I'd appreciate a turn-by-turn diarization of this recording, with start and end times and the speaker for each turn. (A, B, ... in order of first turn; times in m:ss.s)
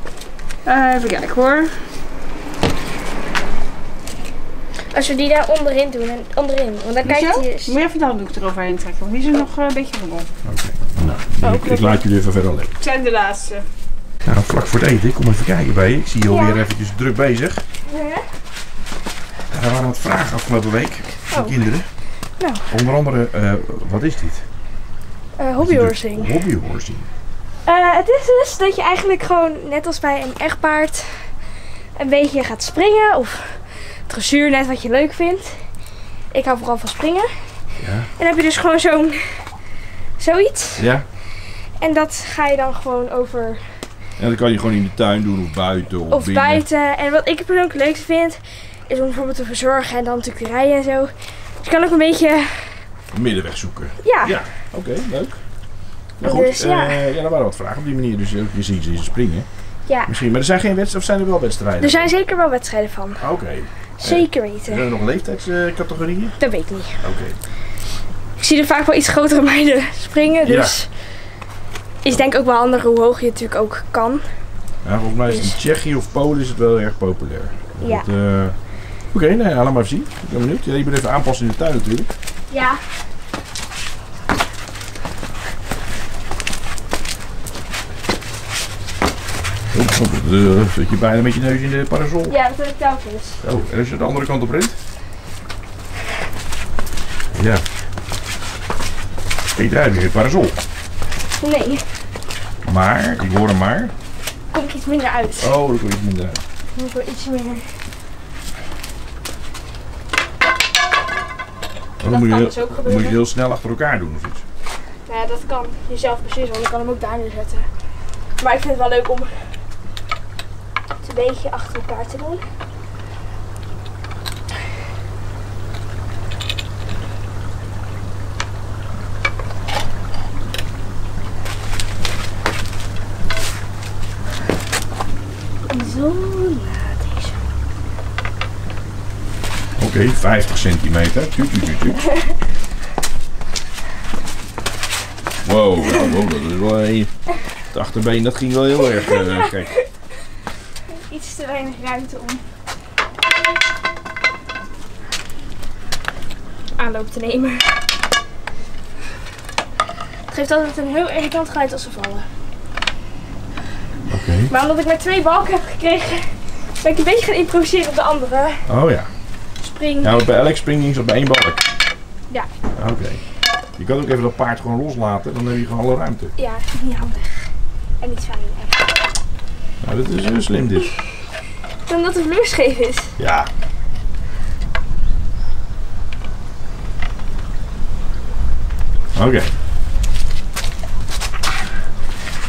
0:00.6-0:01.9 A
0:04.9-0:07.7 B
0:07.1-0:10.3 A
0:10.4-0:12.8 C
0:11.4-0:12.0 B
0:12.8-0:13.6 A
0:14.2-0:17.6 C
0:16.3-0:16.6 B
0:17.8-0:18.2 B
0:19.5-0:21.9 C
0:21.3-0:21.6 B
0:22.4-0:22.7 B
0:22.7-0:24.4 C
0:25.4-0:26.4 B
0:25.6-0:27.1 C
0:27.6-0:31.4 B
0:31.9-0:35.7 B
0:36.3-0:37.6 B
0:37.8-0:38.1 C
0:38.2-0:39.5 B
0:40.2-0:40.9 B
0:40.8-0:41.0 C
0:41.5-0:43.9 B
0:44.2-0:46.6 C
0:46.1-0:52.9 B
0:53.1-0:55.4 C
0:54.0-0:54.4 B
0:56.2-0:59.5 C
0:56.2-0:57.1 B
0:59.9-1:00.1 B
1:00.0-1:02.1 C
1:01.8-1:03.2 B
1:03.2-1:06.4 C
1:04.0-1:04.8 B
1:06.4-1:07.0 B
1:07.0-1:07.4 C
1:08.4-1:10.9 B
1:10.4-1:10.8 C
1:12.0-1:14.2 B
1:14.8-1:22.1 C
1:15.3-1:15.6 B
1:17.8-1:18.1 B
1:22.5-1:22.8 B
1:29.7-1:32.3 C
1:32.3-1:33.4 B
1:33.4-1:34.8 C
1:37.3-1:37.6 C
1:39.5-1:40.6 C
1:41.4-1:41.9 B
1:42.6-1:43.9 C
1:44.5-1:45.5 B
1:45.4-1:46.4 C
1:46.7-1:47.7 B
1:52.0-1:54.4 C
1:52.0-1:53.2 B
1:55.0-1:57.7 B
1:58.4-1:59.5 B
2:01.0-2:02.4 B
2:15.7-2:17.4 B
2:19.8-2:22.0 C
2:25.4-2:27.1 C
2:27.7-2:29.7 C
2:29.0-2:29.9 B
2:30.9-2:32.4 B
2:36.8-2:37.8 B
2:40.3-2:42.3 B
2:44.1-2:44.5 C
2:44.5-2:48.7 B
2:48.7-2:49.1 C
2:49.6-2:50.2 B
2:50.0-2:51.7 C
2:52.7-2:53.2 C
2:53.8-2:56.3 C
2:56.4-2:58.9 B
2:59.8-3:00.9 C
3:01.9-3:03.2 B
3:03.2-3:03.5 C
3:09.1-3:09.5 C